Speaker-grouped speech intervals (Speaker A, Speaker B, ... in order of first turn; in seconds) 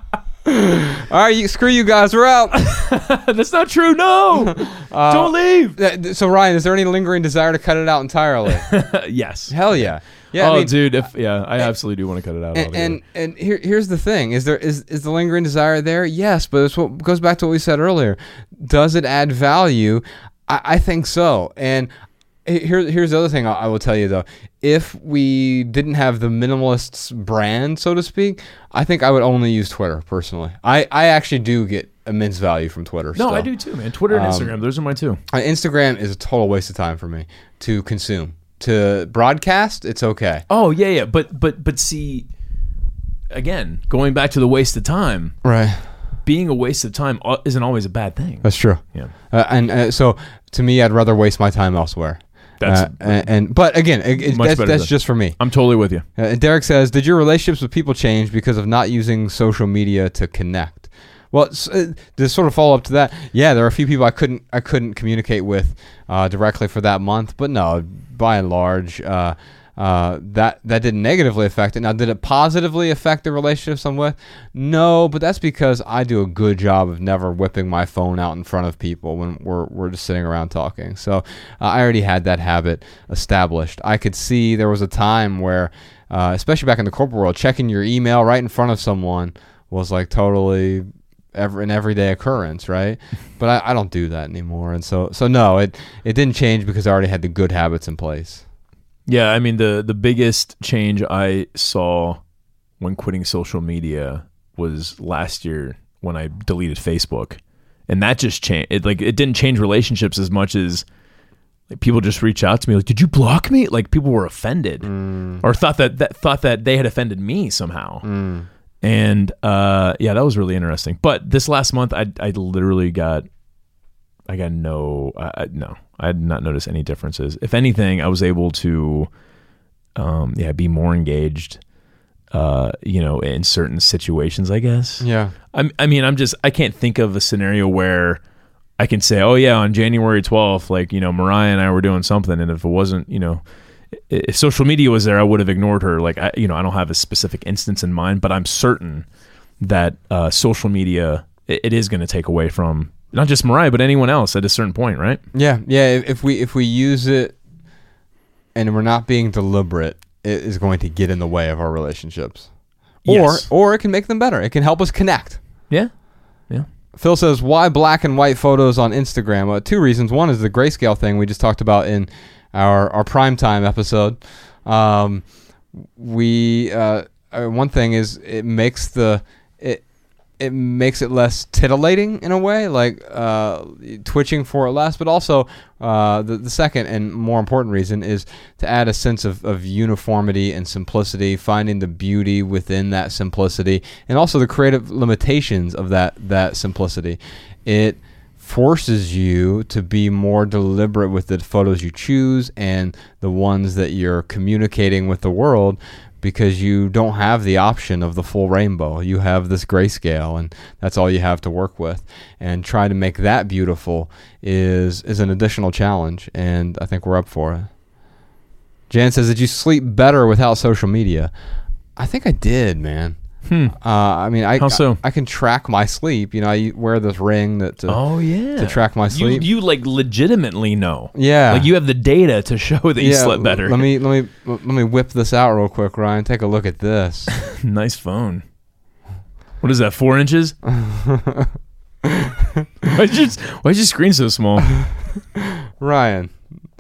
Speaker A: 0.5-2.6, 4.3-8.7, 9.5-10.9, 12.5-21.9, 22.4-33.5, 34.1-34.5, 35.3-40.4, 45.4-45.8, 48.4-55.4, 56.1-98.4, 114.8-115.4, 118.0-118.5, 135.0-135.3, 155.3-157.4, 158.5-162.5, 163.0-165.4, 166.9-175.2, 175.9-179.8, 180.4-217.7, 218.9-221.3, 222.0-223.2, 223.7-228.0, 228.6-229.4, 231.1-231.7, 233.0-237.3, 240.7-241.5, 242.0-242.3, 245.4-246.3
Speaker B: 2.5-5.8, 8.6-13.0, 33.1-35.2, 40.5-42.3, 43.3-45.3, 46.2-49.1, 52.6-53.3, 54.2-56.0, 99.0-102.2, 102.8-110.8, 111.7-114.9, 115.4-118.0, 118.8-123.2, 124.3-129.1, 129.9-131.6, 132.3-138.2, 138.8-149.1, 149.6-155.2, 163.1-163.5, 223.4-223.8, 224.6-225.0, 227.9-233.9, 237.4-238.4, 239.6-240.5, 242.8-244.8